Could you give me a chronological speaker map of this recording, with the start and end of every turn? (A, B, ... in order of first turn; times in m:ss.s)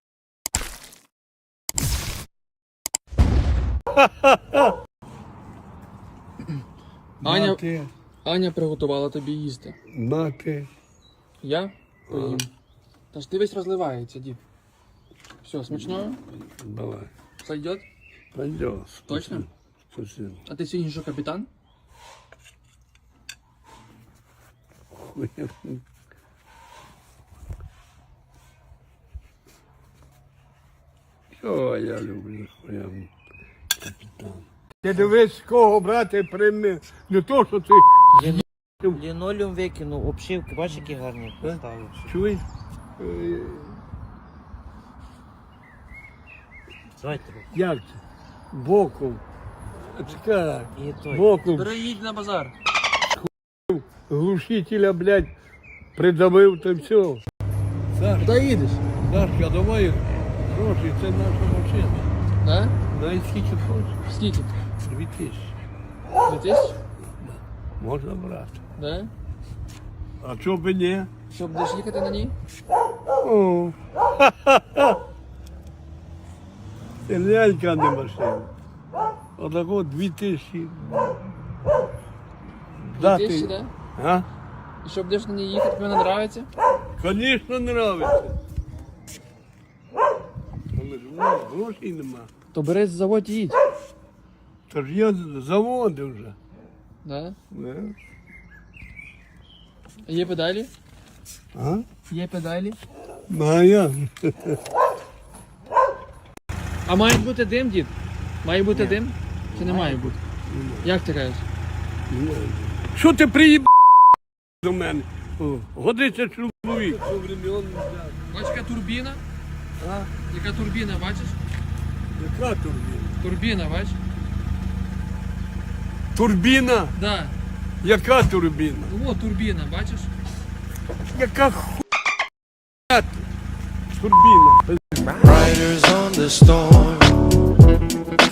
0:07.2-0:07.9 A
0:07.2-0:07.6 B
0:08.2-0:09.8 B
0:09.9-0:10.7 A
0:11.4-0:12.5 B
0:12.1-0:12.4 A
0:13.1-0:14.4 B
0:15.4-0:16.2 B
0:16.6-0:17.1 A
0:17.4-0:17.8 B
0:18.3-0:20.4 A
0:19.1-0:19.5 B
0:20.5-0:21.5 B
0:25.0-0:25.8 A
0:31.4-0:33.1 A
0:33.8-0:39.0 A
0:38.2-0:42.2 C
0:41.4-0:42.4 A
0:43.0-0:43.8 A
0:47.0-0:47.5 C
0:47.5-0:48.0 A
0:48.5-0:49.2 A
0:49.9-0:51.9 A
0:50.8-0:51.3 C
0:51.5-0:52.5 B
0:53.1-0:55.3 A
0:56.0-0:57.2 A
0:57.9-0:58.4 A
0:58.2-0:58.8 B
0:59.0-1:02.1 A
1:02.4-1:02.8 B
1:02.9-1:04.0 A
1:04.1-1:04.5 B
1:04.8-1:05.5 A
1:06.3-1:06.8 B
1:07.2-1:08.6 A
1:08.8-1:09.1 B
1:10.2-1:11.1 A
1:11.3-1:12.3 B
1:13.2-1:15.0 A
1:17.1-1:18.5 A
1:19.4-1:21.0 A
1:22.8-1:24.2 A
1:23.0-1:23.7 B
1:24.8-1:26.5 B
1:27.0-1:28.3 A
1:30.7-1:32.3 A
1:32.5-1:33.6 B
1:34.7-1:36.4 A
1:37.0-1:37.4 B
1:37.5-1:37.9 A
1:40.0-1:40.7 B
1:41.5-1:41.8 A
1:42.1-1:42.8 B
1:43.3-1:44.6 A
1:46.9-1:50.2 B
1:48.7-1:49.0 C
1:49.6-1:50.1 C
1:50.5-1:50.9 A
1:50.8-1:51.4 B
1:52.1-1:53.7 A
1:54.6-1:58.2 A
1:58.3-1:59.2 B
1:59.8-2:00.1 A
2:00.3-2:01.4 B
2:02.2-2:03.2 A
2:03.2-2:04.0 B
2:06.2-2:07.0 A
2:07.0-2:07.4 B
2:07.8-2:08.9 A
2:08.9-2:10.1 B
2:11.1-2:11.8 A
2:12.9-2:13.2 A
2:13.9-2:14.8 A
2:15.2-2:17.3 D